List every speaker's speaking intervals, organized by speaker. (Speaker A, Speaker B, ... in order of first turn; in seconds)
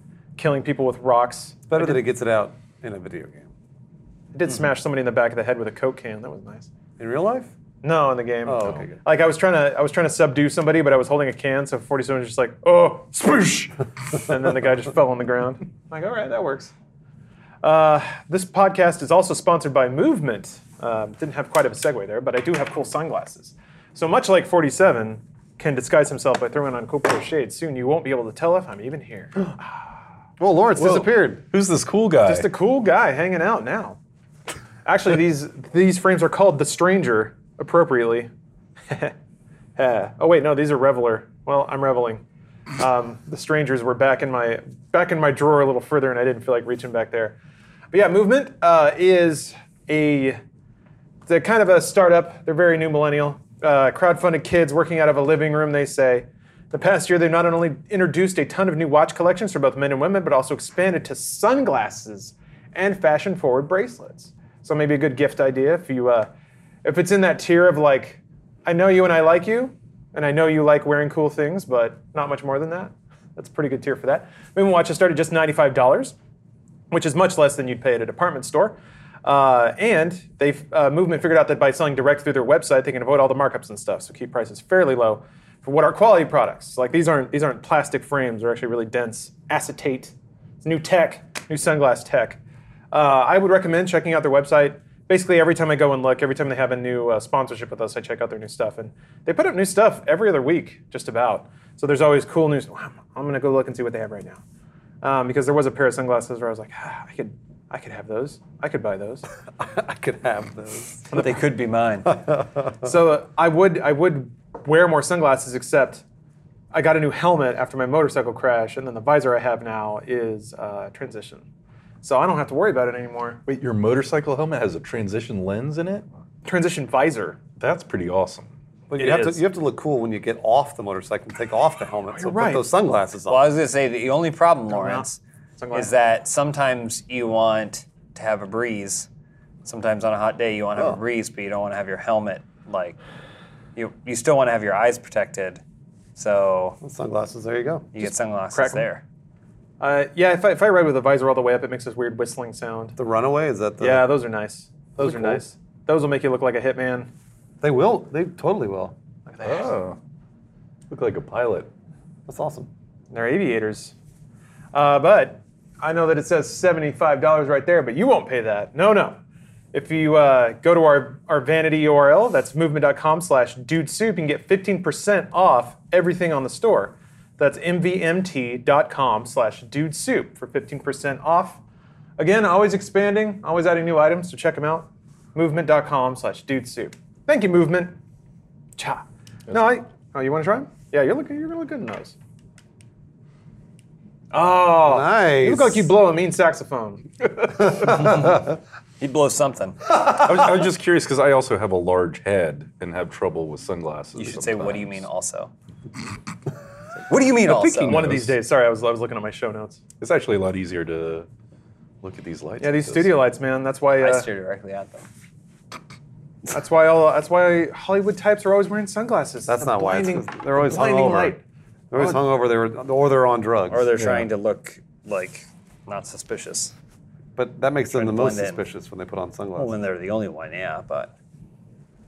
Speaker A: 0.4-2.0, 4.3-6.7, 7.8-16.7, 17.6-29.6, 32.2-34.0, 34.8-38.3, 38.9-39.1, 39.8-42.2, 42.8-47.4, 47.9-50.4, 51.3-66.3, 66.8-76.1, 76.9-92.4, 92.9-104.4, 105.0-109.2, 112.8-116.0, 116.7-121.4, 122.0-123.4, 126.4-127.4, 129.0-129.4, 132.1-132.6, 134.7-135.1, 135.6-135.9, 148.5-148.8, 149.8-152.9, 153.8-157.1, 159.3-159.8, 163.1-163.9, 164.7-169.2, 169.7-181.6, 182.2-187.9, 188.8-192.1, 194.3-197.1, 207.8-209.8, 212.6-214.3, 216.5-221.4
Speaker B: 1.7-3.5, 7.0-7.5, 8.4-9.0, 30.4-31.4, 109.6-111.3, 112.0-112.9, 128.9-133.5, 146.8-148.0, 153.0-154.1, 155.0-155.4, 157.6-158.9, 162.3-162.7, 194.8-195.9, 197.6-198.4, 219.5-221.3, 221.9-223.9, 227.3-229.7
Speaker C: 30.8-32.5, 123.5-126.0, 127.6-128.5, 159.4-160.0, 160.9-161.7, 200.1-205.0, 207.4-208.4, 210.0-211.3, 212.0-213.1, 224.0-224.3
Speaker D: 111.1-112.1, 133.3-135.2, 135.7-139.1, 139.6-143.0, 143.8-145.6, 146.2-146.8, 147.9-149.0, 197.8-198.4, 199.0-200.0, 204.2-205.5, 207.1-208.1, 214.0-215.1, 223.7-226.7, 227.9-228.6, 229.6-231.1